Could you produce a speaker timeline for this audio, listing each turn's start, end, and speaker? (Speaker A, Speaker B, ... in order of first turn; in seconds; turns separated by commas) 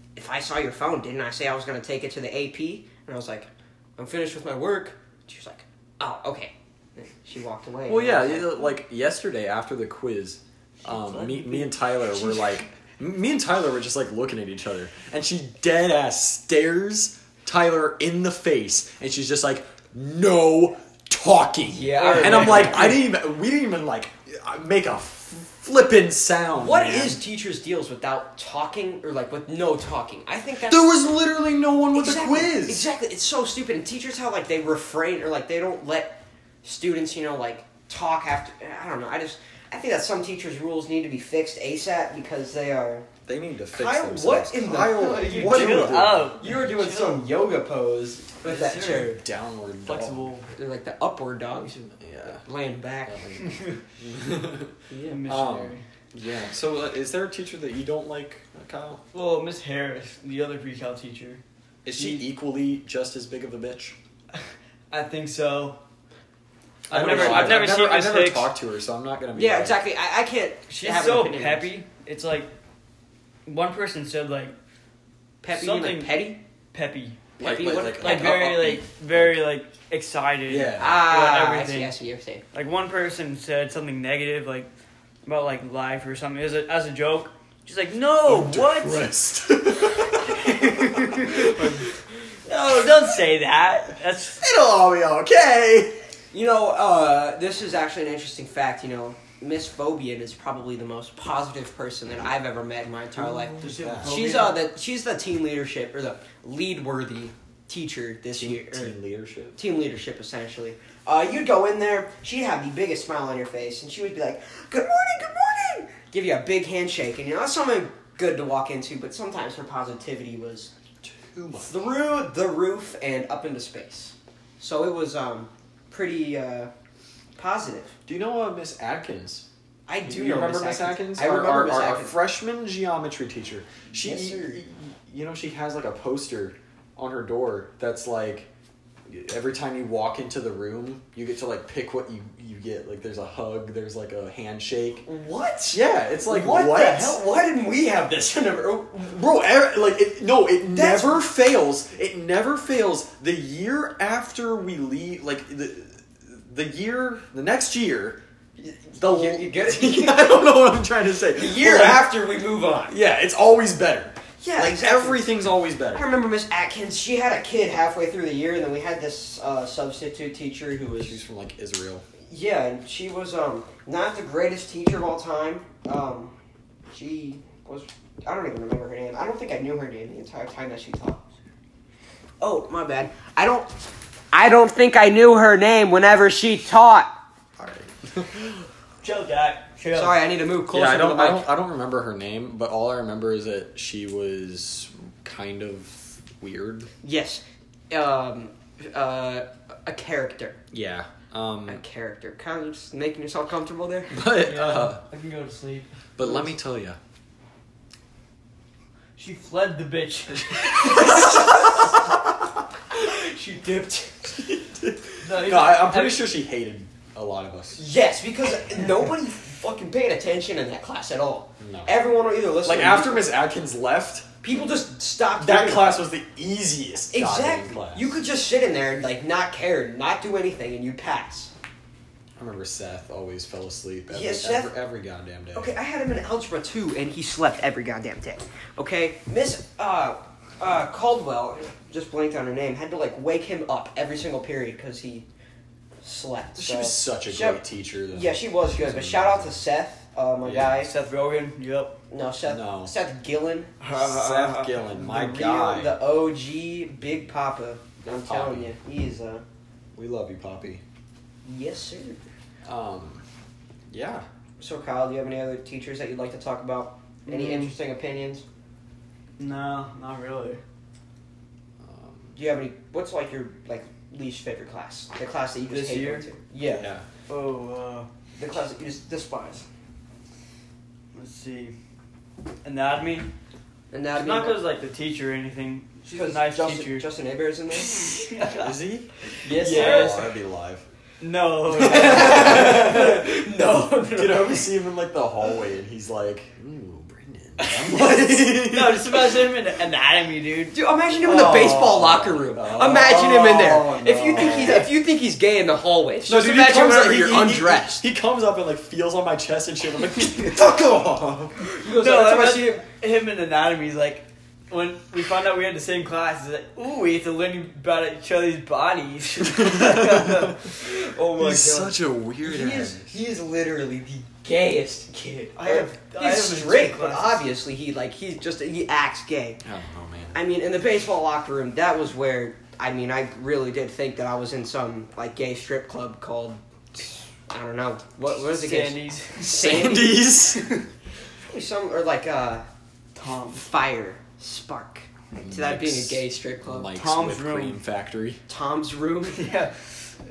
Speaker A: 0.1-8.7, Speaker B: 7.9-27.2, Speaker A: 10.8-12.6, Speaker A: 21.7-22.9, Speaker C: 21.9-23.0, Speaker A: 26.5-31.0, Speaker B: 30.6-32.9, Speaker A: 31.9-43.1, Speaker B: 43.2-46.3, Speaker A: 43.7-49.2, Speaker C: 44.9-47.3, Speaker C: 48.4-49.1, Speaker B: 48.9-50.4, Speaker C: 49.8-50.5, Speaker A: 50.5-51.8, Speaker B: 51.9-52.4, Speaker A: 52.4-53.2, Speaker B: 53.1-54.7, Speaker C: 53.4-53.8, Speaker A: 54.9-55.2, Speaker C: 55.0-55.8, Speaker B: 55.3-59.0, Speaker C: 59.1-62.2, Speaker B: 61.8-64.0, Speaker C: 64.3-65.8, Speaker C: 66.9-68.5, Speaker B: 66.9-69.8, Speaker A: 66.9-67.8, Speaker A: 69.3-71.7, Speaker C: 70.7-72.5, Speaker C: 73.5-74.5, Speaker A: 75.4-76.4, Speaker C: 75.5-77.3, Speaker B: 77.4-79.4, Speaker A: 77.4-78.7, Speaker C: 78.0-81.9, Speaker B: 80.5-81.0, Speaker A: 80.8-82.4, Speaker C: 82.5-84.7, Speaker C: 85.2-89.0, Speaker B: 88.2-91.8, Speaker C: 90.3-91.8, Speaker C: 92.5-94.4, Speaker B: 94.4-96.0, Speaker A: 96.3-108.9, Speaker B: 103.1-104.2, Speaker C: 103.6-104.6, Speaker B: 108.3-109.6, Speaker A: 109.5-120.7, Speaker B: 121.0-121.8, Speaker A: 121.5-126.7, Speaker A: 127.3-127.9, Speaker B: 128.1-129.4, Speaker A: 129.9-132.1, Speaker B: 130.0-138.5, Speaker A: 133.9-134.6, Speaker B: 139.1-145.0, Speaker A: 145.0-149.1, Speaker B: 145.7-147.2, Speaker B: 149.1-158.2, Speaker A: 150.7-151.2, Speaker A: 158.6-160.6, Speaker B: 158.9-162.1, Speaker A: 161.3-162.9, Speaker B: 162.9-166.1, Speaker A: 164.4-165.3, Speaker A: 165.9-171.2, Speaker B: 171.0-172.0, Speaker A: 172.3-176.3, Speaker A: 176.9-181.2, Speaker A: 182.4-183.7, Speaker A: 184.3-187.1, Speaker B: 187.6-188.6, Speaker C: 189.0-190.2, Speaker A: 189.9-191.4, Speaker B: 190.7-196.9, Speaker A: 197.0-200.6, Speaker B: 200.7-201.8, Speaker A: 201.7-204.1, Speaker B: 204.1-205.0, Speaker C: 204.2-205.9, Speaker B: 206.2-207.0, Speaker C: 209.2-211.3, Speaker A: 210.8-211.8, Speaker A: 212.9-214.4, Speaker B: 214.3-217.8, Speaker C: 215.2-216.3, Speaker A: 217.8-223.3, Speaker B: 221.6-221.9, Speaker B: 222.6-224.3, Speaker A: 224.4-226.1, Speaker B: 225.4-228.2, Speaker A: 227.1-231.5, Speaker B: 232.4-235.7, Speaker A: 234.1-234.7, Speaker A: 235.5-245.2, Speaker A: 246.0-250.9, Speaker B: 246.6-249.6, Speaker B: 250.4-250.8, Speaker C: 250.6-252.0, Speaker A: 252.1-253.8, Speaker B: 252.5-252.9, Speaker C: 253.8-254.8, Speaker B: 253.9-256.0, Speaker A: 254.9-259.4, Speaker B: 258.1-258.7, Speaker B: 259.9-260.8, Speaker A: 261.4-262.2, Speaker B: 262.6-263.2, Speaker B: 263.9-264.2, Speaker A: 264.6-268.4, Speaker C: 267.3-267.8, Speaker C: 269.4-270.6, Speaker B: 271.8-272.4, Speaker A: 272.3-276.9, Speaker C: 275.7-276.3, Speaker B: 276.6-277.1, Speaker C: 277.3-278.1, Speaker A: 278.4-279.7, Speaker C: 281.1-281.7, Speaker C: 282.6-283.3, Speaker A: 283.9-284.6, Speaker C: 284.1-287.1, Speaker A: 286.1-288.1, Speaker C: 287.9-288.7, Speaker B: 288.5-290.9, Speaker C: 289.4-290.3, Speaker A: 289.4-290.2, Speaker C: 291.2-292.8, Speaker A: 291.7-294.7, Speaker B: 291.9-293.3, Speaker B: 294.1-299.4, Speaker C: 297.6-300.7, Speaker A: 300.7-308.0, Speaker B: 301.2-304.9, Speaker B: 306.2-311.6, Speaker A: 311.6-312.8, Speaker C: 311.8-320.7, Speaker B: 319.5-320.6, Speaker A: 320.8-329.6, Speaker B: 321.4-323.1, Speaker C: 325.6-327.4, Speaker B: 329.6-330.4, Speaker A: 330.3-340.2, Speaker C: 338.4-339.6, Speaker B: 339.5-340.6, Speaker C: 340.4-340.8, Speaker A: 341.4-342.6, Speaker C: 343.1-343.6, Speaker A: 343.5-346.9, Speaker B: 345.3-348.4, Speaker C: 346.9-347.8, Speaker A: 348.5-349.4, Speaker C: 349.3-349.9